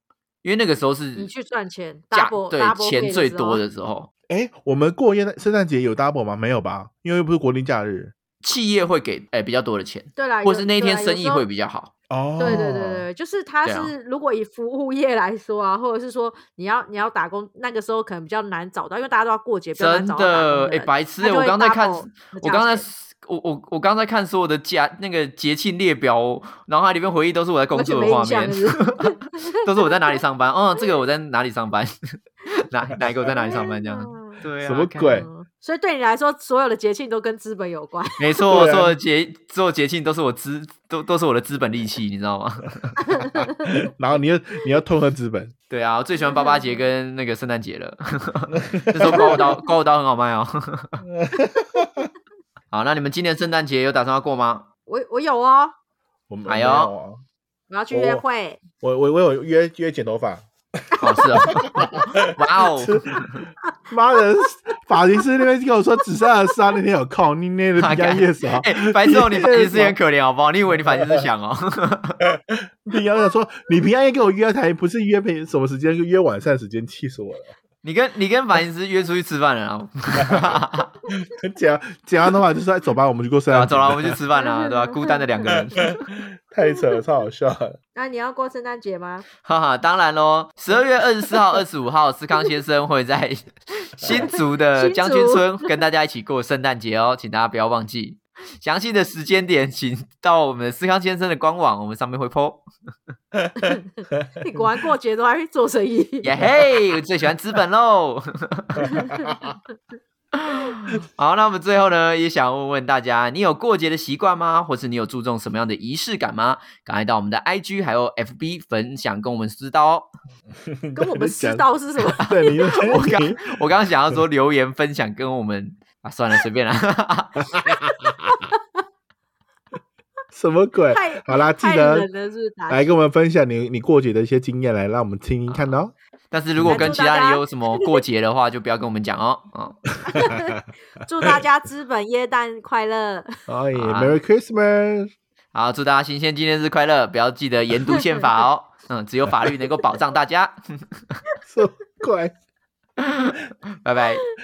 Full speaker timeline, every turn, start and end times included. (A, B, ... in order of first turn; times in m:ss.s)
0:00.4-0:01.3 A
0:01.2-0:03.6 B
0:02.1-0:04.1 A
0:04.3-0:08.1 C
0:08.4-0:11.9 A
0:10.2-0:11.4 B
0:12.1-0:13.0 C
0:12.4-0:22.9 B
0:13.6-0:13.9 A
0:19.7-0:35.3 A
0:27.7-0:30.2 B
0:33.3-0:34.4 B
0:34.6-0:35.3 C
0:35.1-0:38.4 B
0:38.2-0:43.0 A
0:38.5-0:39.0 C
0:43.0-0:43.9 B
0:43.7-0:45.5 C
0:45.7-0:51.0 A
0:46.2-0:46.8 B
0:48.5-0:49.4 C
0:49.0-0:49.7 B
0:51.1-0:52.1 C
0:52.7-0:54.7 A
0:54.9-0:55.7 B
0:56.3-0:57.2 C
0:56.5-0:56.9 A
0:57.7-0:58.6 B
0:57.9-0:58.2 C
0:58.8-1:03.2 C
1:01.0-1:03.4 A
1:01.4-1:02.2 B
1:03.9-1:10.0 C
1:07.8-1:12.2 A
1:10.8-1:11.3 C
1:12.3-1:17.5 C
1:17.8-1:20.9 A
1:20.1-1:24.2 C
1:23.5-1:26.0 A
1:24.4-1:25.9 B
1:25.5-1:27.8 C
1:27.9-1:29.2 B
1:29.4-1:42.6 A
1:34.1-1:35.7 B
1:43.6-1:44.3 C
1:43.6-1:46.5 B
1:46.2-1:49.0 A
1:48.8-1:49.5 C
1:48.8-1:49.5 B
1:50.3-2:00.1 A
2:00.7-2:01.6 C
2:00.9-2:02.9 B
2:02.2-2:03.6 C
2:02.6-2:07.6 A
2:07.5-2:08.3 C
2:08.1-2:08.6 B
2:10.3-2:12.1 C
2:10.9-2:12.8 B
2:12.7-2:15.9 C
2:15.5-2:15.8 A
2:16.3-2:19.9 A
2:16.6-2:17.0 C
2:16.6-2:18.0 B
2:20.0-2:23.3 B
2:20.1-2:20.4 C
2:23.5-2:25.1 C
2:23.7-2:24.2 A
2:25.5-2:31.2 A
2:31.4-2:32.3 C
2:33.0-2:34.2 A